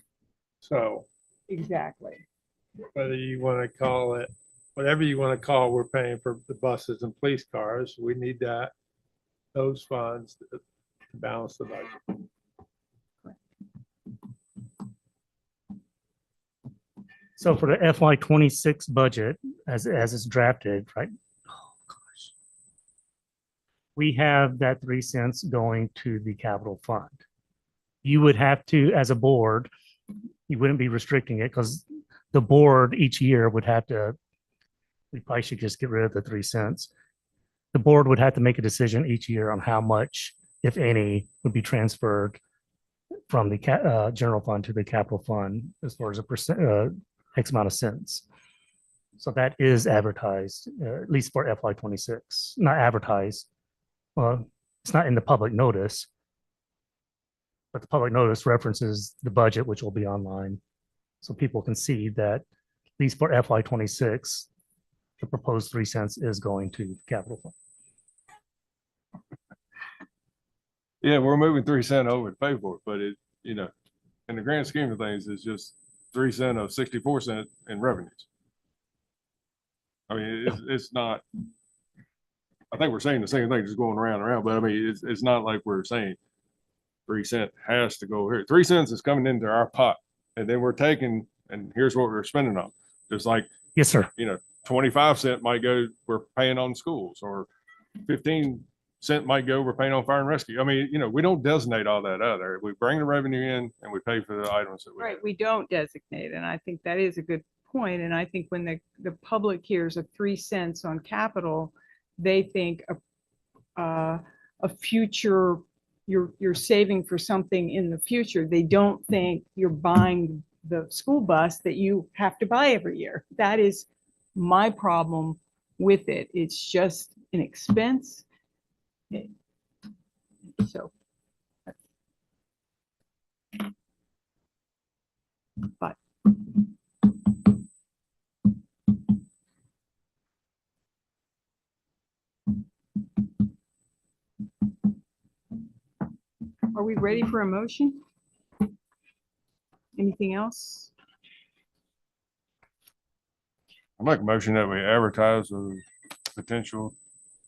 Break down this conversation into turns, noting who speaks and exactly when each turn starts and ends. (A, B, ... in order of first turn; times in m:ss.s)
0:00.6-0:01.0 A
0:01.5-0:02.2 B
0:02.9-0:08.7 A
0:09.5-0:12.2 A
0:17.4-0:21.1 C
0:21.6-0:22.3 C
0:24.0-0:27.2 C
0:28.0-0:29.7 C
0:30.5-0:34.2 C
0:35.1-0:36.9 C
0:37.7-0:42.4 C
0:43.3-0:48.2 C
0:49.2-0:53.5 C
0:54.2-0:56.1 C
0:57.7-1:00.6 C
1:01.2-1:02.4 C
1:03.0-1:04.5 C
1:05.2-1:07.5 C
1:11.0-1:13.7 D
1:14.3-1:18.3 D
1:20.1-1:21.2 D
1:22.7-1:26.2 D
1:27.1-1:33.5 D
1:33.8-1:34.1 C
1:34.2-1:37.5 D
1:38.0-1:45.2 D
1:45.0-1:53.0 B
1:53.8-2:08.2 B
2:10.6-2:10.9 B
2:26.7-2:28.0 B
2:29.9-2:30.9 B
2:34.0-2:35.8 D
2:36.3-2:36.9 D